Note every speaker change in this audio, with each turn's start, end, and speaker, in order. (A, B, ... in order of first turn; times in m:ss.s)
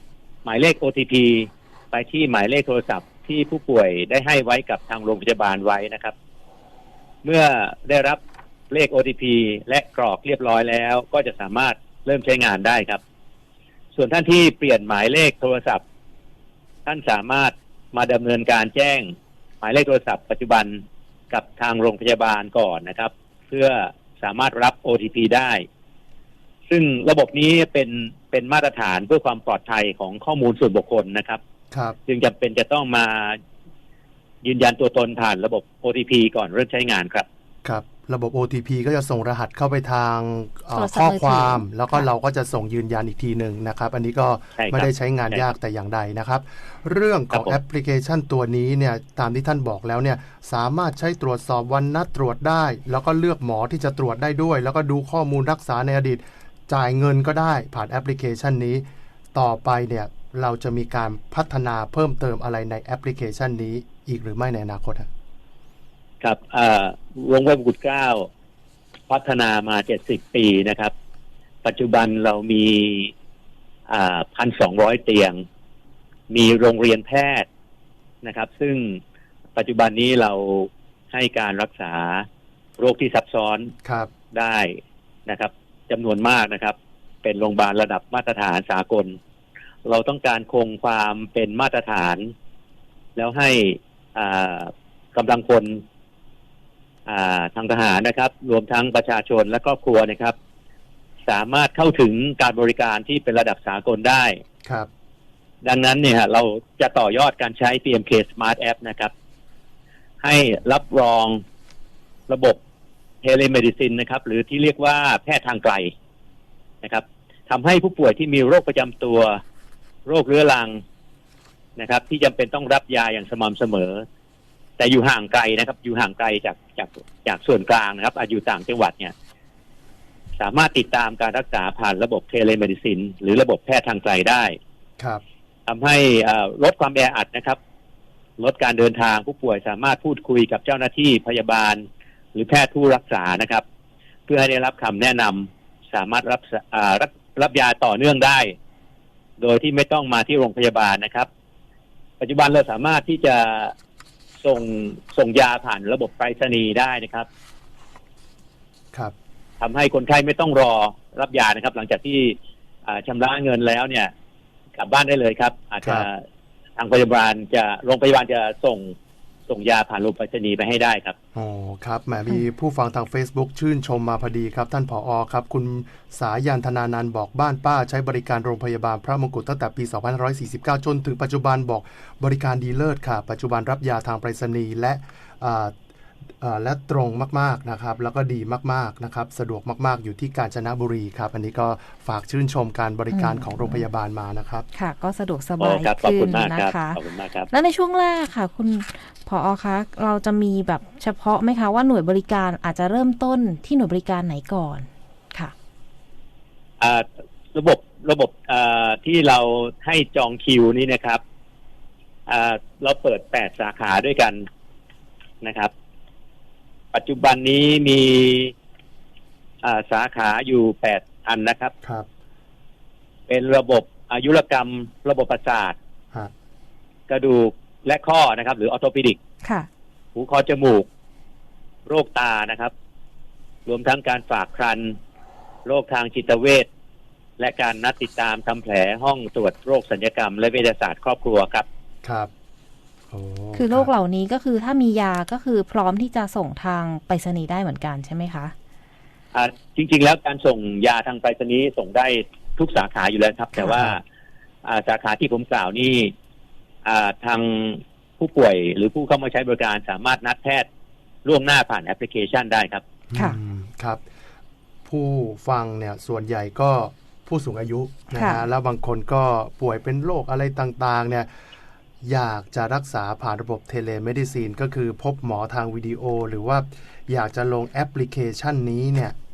0:00.4-0:06.1 A
0:07.2-0:08.2 A
0:08.7-0:13.0 A
0:13.9-0:15.8 A
0:16.8-0:25.6 A
0:26.7-0:31.4 A
0:32.1-0:33.4 A
0:34.4-0:37.2 A
0:37.6-1:05.1 B
0:40.7-0:41.6 C
0:44.6-0:45.4 A
1:06.2-1:08.3 A
1:09.1-1:10.9 A
1:11.6-1:13.1 A
1:13.9-1:15.4 A
1:16.3-1:17.4 A
1:18.2-1:19.0 A
1:19.6-1:22.2 A
1:22.8-1:23.7 A
1:23.8-1:24.1 B
1:24.3-1:29.2 A
1:29.8-1:32.3 A
1:33.2-1:35.8 A
1:37.1-1:40.3 A
1:41.2-1:44.4 A
1:45.6-1:49.1 A
1:50.2-1:51.4 A
1:52.3-1:52.6 A
1:53.2-1:55.9 A
1:56.8-1:59.4 A
2:00.1-2:00.8 A
2:01.8-2:04.0 A
2:04.8-2:09.1 A
2:10.4-2:14.6 A
2:15.7-2:17.6 A
2:18.4-2:21.8 A
2:22.3-2:23.6 A
2:24.3-2:28.5 A
2:29.4-2:31.3 A
2:32.2-2:33.7 A
2:34.4-2:37.3 A
2:39.6-2:42.3 A
2:42.8-2:44.1 A
2:44.8-2:46.2 A
2:45.8-2:46.1 B
2:46.8-2:48.9 A
2:49.5-2:51.1 A
2:51.3-3:05.7 B
3:06.4-3:14.7 B
3:13.1-3:13.8 C
3:14.7-3:17.0 C
3:15.6-3:17.5 A
3:17.5-3:25.5 C
3:26.8-3:31.2 A
3:32.3-3:34.4 A
3:35.4-3:35.7 A
3:36.9-3:38.5 A
3:39.6-3:41.7 A
3:43.3-3:45.8 A
3:47.1-3:49.2 A
3:50.1-3:50.9 A
3:51.9-3:52.7 A
3:53.6-3:55.0 A
3:55.6-3:56.7 A
3:57.4-4:01.6 A
4:02.0-4:02.3 B
4:03.1-4:03.9 B
4:03.5-4:08.5 C
4:09.3-4:14.0 A
4:14.6-4:16.1 A
4:16.8-4:20.7 A
4:21.2-4:22.8 A
4:23.1-4:24.0 B
4:24.9-4:31.3 B
4:28.1-4:28.4 C
4:32.0-4:39.2 B